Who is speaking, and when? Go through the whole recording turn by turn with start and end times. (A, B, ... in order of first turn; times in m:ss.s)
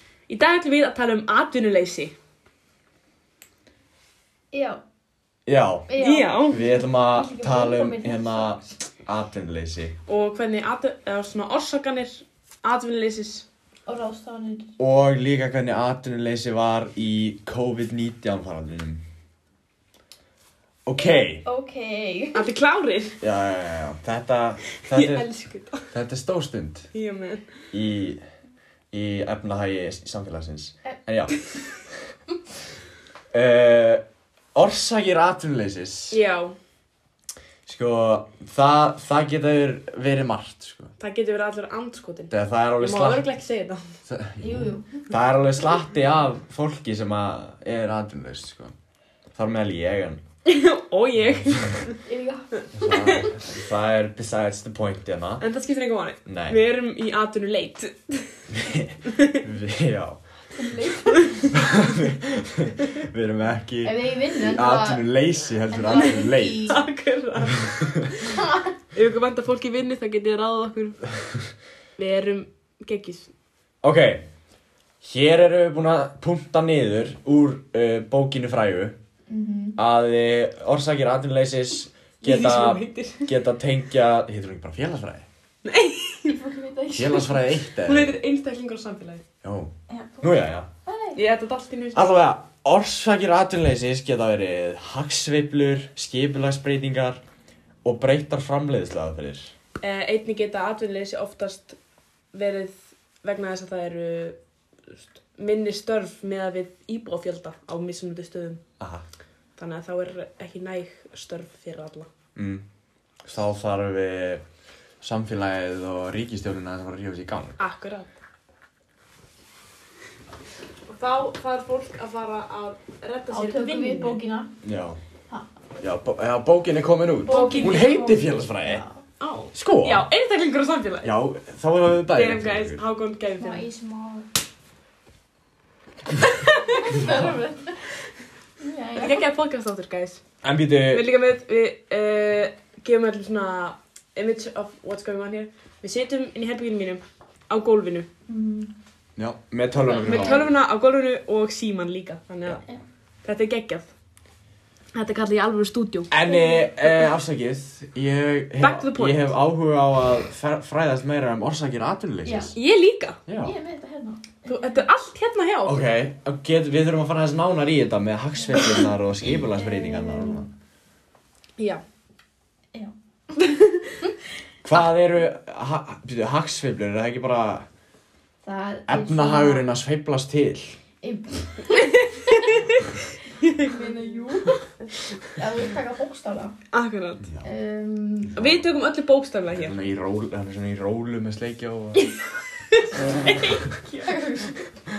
0:00.3-0:02.1 A
0:04.5-0:04.8 B
0:05.5-0:05.9 C
0:05.9-0:08.6 B
0:06.0-0:06.6 A
0:06.4-0:10.0 C
0:10.1-0:13.5 A
0:13.9-0:14.7 B
0:14.8-0:19.0 C
0:20.9-0:21.4 C
0:21.4-0:22.5 B
0:22.3-0:23.2 A
0:23.2-0:25.3 C
0:24.8-0:25.8 A
0:25.9-0:26.9 C
0:26.9-0:27.5 A
0:27.7-0:28.2 C
0:28.9-0:31.4 C
0:33.3-0:34.0 C
0:34.6-0:36.2 C
0:36.1-0:36.5 A
0:37.7-0:40.9 C
0:41.0-0:43.8 A
0:42.3-0:43.3 C
0:44.1-0:48.7 C
0:44.4-0:44.9 B
0:49.4-0:50.2 C
0:50.5-0:52.0 A
0:52.1-0:53.4 B
0:52.8-0:55.4 C
0:52.9-0:53.3 A
0:55.4-0:58.4 A
0:56.3-0:56.6 C
0:58.5-1:00.2 C
0:59.1-0:59.4 A
1:00.5-1:01.7 B
1:01.2-1:01.4 A
1:01.5-1:06.7 C
1:03.8-1:05.1 B
1:05.7-1:06.8 B
1:05.9-1:08.4 A
1:08.3-1:08.7 B
1:08.9-1:11.1 A
1:12.0-1:13.3 A
1:13.8-1:14.3 C
1:15.0-1:19.0 C
1:19.3-1:19.8 B
1:19.8-1:25.3 C
1:22.2-1:23.3 A
1:25.6-1:26.4 A
1:26.2-1:27.4 B
1:26.9-1:28.2 C
1:27.8-1:29.2 A
1:29.4-1:30.7 C
1:29.9-1:31.2 B
1:31.2-1:32.1 A
1:32.0-1:37.2 C
1:37.8-1:39.5 C
1:39.8-1:41.8 A
1:42.3-1:44.4 A
1:44.9-1:48.6 A
1:48.8-1:49.0 C
1:49.6-1:52.1 A
1:52.4-1:52.6 C
1:53.2-1:54.4 C
1:55.0-1:57.6 C
1:57.6-1:58.1 A
2:00.9-2:04.2 A
2:03.3-2:04.5 B
2:04.6-2:05.0 C
2:05.8-2:08.8 C
2:07.3-2:09.0 B
2:07.3-2:08.0 A
2:09.2-2:11.1 A
2:09.5-2:10.1 C
2:11.0-2:12.8 C
2:12.2-2:13.7 A
2:13.4-2:14.3 B
2:16.2-2:17.0 A
2:16.7-2:17.8 B
2:16.9-2:17.4 C
2:18.6-2:19.3 B
2:19.0-2:20.2 A
2:20.4-2:21.1 C
2:20.9-2:28.1 A
2:28.3-2:28.7 B
2:29.2-2:30.5 C
2:29.8-2:30.5 B
2:30.0-2:32.6 A
2:33.2-2:33.9 A
2:34.9-2:36.1 A
2:36.1-2:42.5 C
2:36.2-2:36.7 B
2:38.6-2:39.4 A
2:42.2-2:42.5 B
2:42.6-2:43.2 A
2:43.3-2:43.6 C
2:43.4-2:44.9 B
2:44.4-2:45.8 A
2:45.6-2:50.5 C
2:48.6-2:48.9 A
2:49.5-2:50.5 B
2:54.6-2:57.7 C
2:58.4-2:59.7 B
2:58.9-3:00.8 C
3:01.0-3:02.5 B
3:01.8-3:02.8 A
3:03.4-3:03.8 A
3:03.6-3:04.7 B
3:05.4-3:06.6 B
3:06.7-3:07.3 A
3:07.2-3:07.5 C
3:07.4-3:08.4 B
3:08.4-3:08.7 C
3:08.4-3:09.8 A
3:09.5-3:12.1 C
3:12.7-3:14.1 A
3:14.0-3:14.6 B